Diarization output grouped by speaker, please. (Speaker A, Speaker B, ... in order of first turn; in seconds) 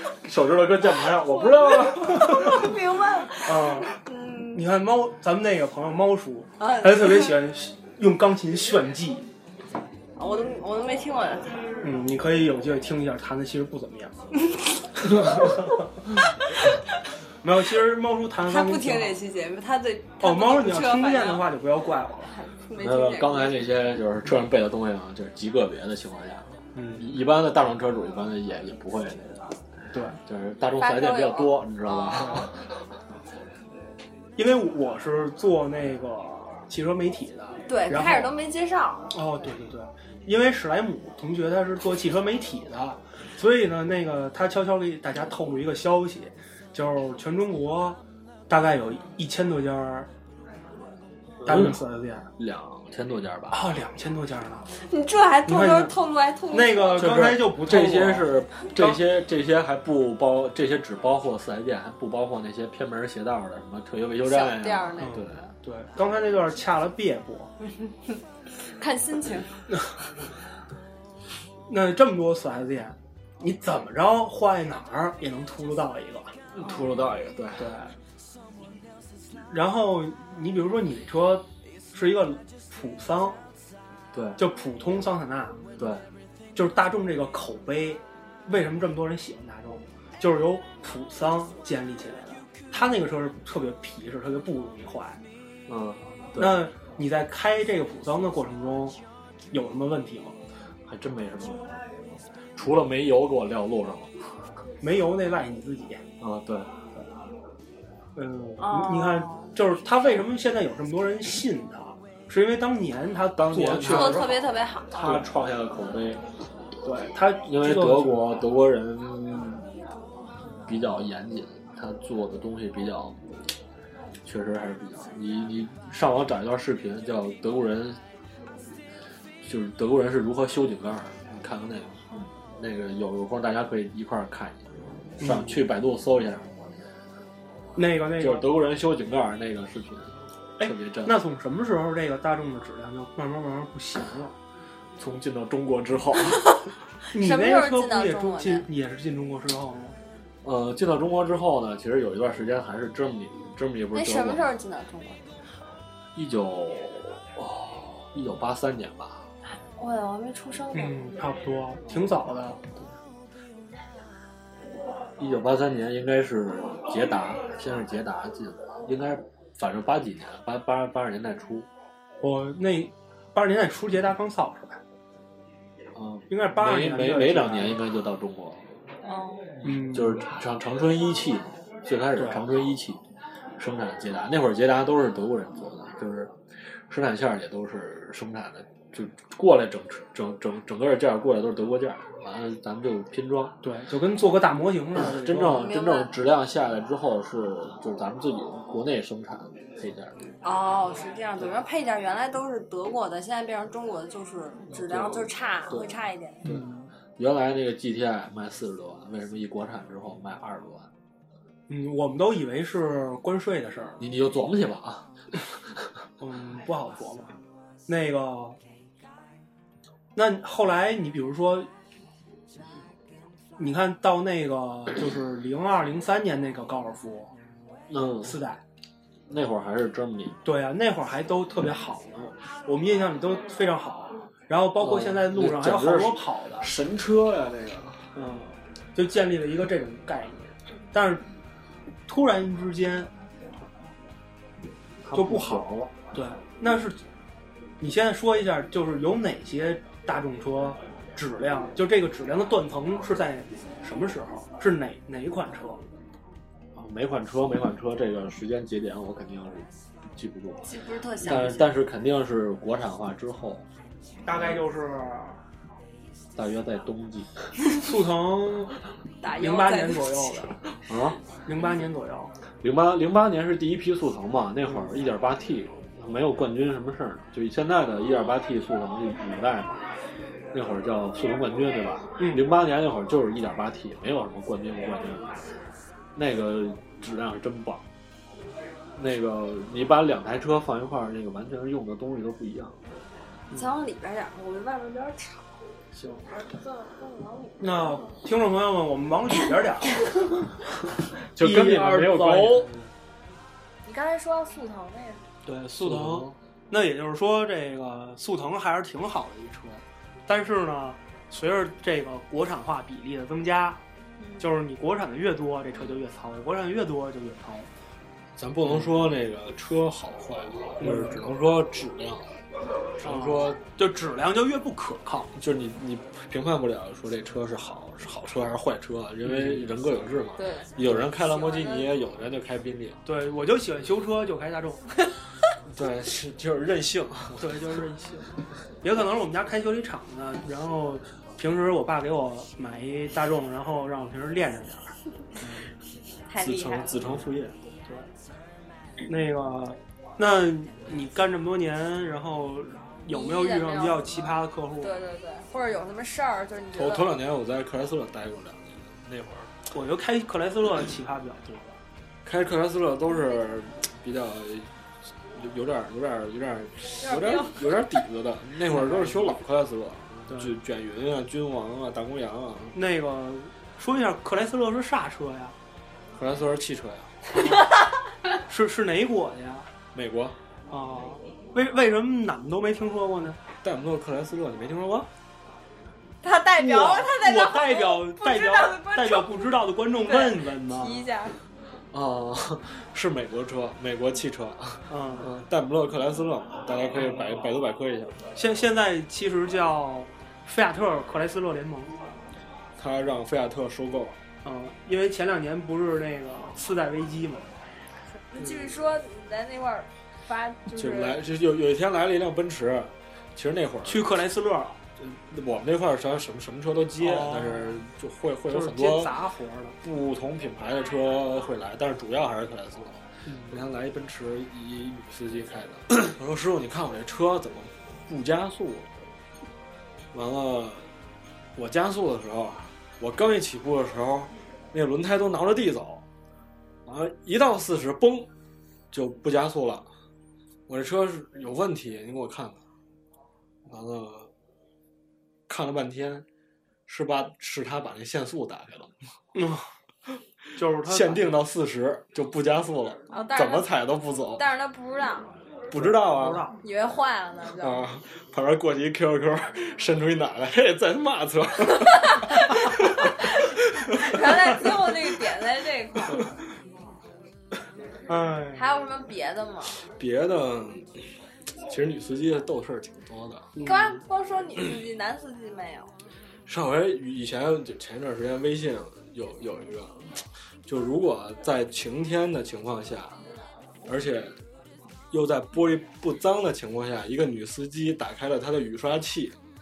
Speaker A: 0.1-2.7, 22.8-29.5, 30.3-32.5, 51.5-51.8, 52.4-53.7, 57.0-65.4, 76.5-77.7, 84.1-84.4, 85.8-86.0, 95.7-96.6, 100.8-101.7, 102.5-104.1, 106.2-106.7, 113.3-114.4, 114.9-116.2, 117.4-119.7, 120.7-123.2, 124.2-128.0, 129.4-132.0, 132.6-134.6, 135.2-136.5, 138.2-141.2, 145.0-146.4, 150.4-154.5, 156.2-159.2, 165.2-171.7, 176.0-178.7, 179.6-183.0, 183.6-186.3, 186.9-193.6, 194.9-200.2, 204.7-205.3, 207.2-210.9, 214.0-215.1, 227.9-228.4, 229.3-230.4, 234.8-238.0, 245.0-245.9, 256.8-260.6, 261.2-263.6, 266.4-267.5, 270.9-271.2, 272.6-279.7, 280.5-285.3, 286.1-287.8, 289.0-292.8, 301.3-302.9, 305.8-306.4, 318.4-322.4, 323.0-323.6, 325.4-333.0, 335.7-337.6, 346.4-347.6, 356.7-359.5, 362.2-364.7, 365.3-372.8, 376.1-377.2, 379.9-380.4, 383.6-385.1, 391.9-398.2, 402.8-404.2, 410.8-414.2, 415.0-419.2, 419.8-428.9, 430.1-430.9, 431.6-436.1, 436.9-438.3, 438.9-439.9, 440.7-442.6, 443.7-444.3, 445.5-446.3, 446.9-448.9, 450.9-454.4, 455.7-456.4, 457.6-463.3, 470.0-470.9, 471.7-473.5, 476.5-483.2, 483.9-484.3, 485.1-489.4
Speaker B: 1.2-4.6, 6.6-7.3, 10.2-11.6, 18.5-21.5, 22.3-23.6, 30.8-32.3, 37.7-39.1, 54.9-57.1, 64.2-65.5, 68.6-69.6, 108.6-109.5, 113.8-115.1, 147.1-148.7, 153.9-155.2, 159.5-161.0, 179.0-179.5, 195.6-196.1, 200.4-206.5, 260.6-261.7, 269.2-270.3, 293.5-295.5, 296.3-298.0, 303.9-305.2, 314.2-314.5, 330.4-330.7, 331.2-331.9, 346.3-347.0, 353.1-354.2, 354.8-357.1, 367.0-367.8, 386.2-389.5, 390.1-391.4, 408.3-411.2, 453.1-453.7, 454.3-455.3, 456.6-457.8, 461.9-462.3, 463.9-466.2, 468.6-469.8, 473.6-475.9
Speaker C: 3.4-3.9, 4.5-9.3, 11.8-14.1, 15.1-15.7, 17.4-19.2, 20.2-22.3, 26.8-27.1, 29.9-30.2, 32.1-32.5, 34.4-38.3, 39.1-50.1, 51.4-52.3, 53.5-54.7, 55.5-55.9, 56.5-59.0, 65.0-67.5, 71.7-76.3, 77.6-77.9, 79.5-83.4, 84.4-85.6, 86.5-95.2, 96.4-99.0, 99.5-100.3, 104.8-106.0, 108.2-114.4, 115.0-115.3, 116.8-118.4, 135.2-135.7, 137.8-138.5, 140.6-144.3, 147.1-150.0, 160.7-162.6, 172.2-174.8, 176.3-177.8, 179.6-180.2, 182.2-182.4, 193.6-195.7, 206.4-206.9, 211.7-214.0, 216.2-217.3, 217.9-218.6, 220.2-221.7, 223.6-227.3, 228.2-228.6, 230.4-236.7, 238.2-241.2, 242.1-243.1, 245.1-247.0, 247.8-255.8, 264.2-265.4, 267.7-268.8, 269.4-270.6, 271.5-272.3, 282.2-282.4, 297.6-300.4, 301.4-302.7, 305.5-313.8, 314.4-317.7, 320.8-321.3, 323.0-325.3, 329.2-329.6, 333.1-334.8, 337.4-338.3, 338.8-345.7, 349.1-355.0, 359.7-361.8, 368.7-369.3, 370.3-370.5, 372.7-375.6, 378.5-379.7, 380.7-383.4, 386.6-391.1, 394.9-395.3, 396.9-397.4, 398.4-402.0, 404.4-407.5, 408.4-408.8, 413.9-414.8, 417.0-417.8, 418.5-419.8, 423.3-423.6, 449.4-449.7, 450.6-451.4, 455.7-456.6, 468.1-468.7, 473.6-474.0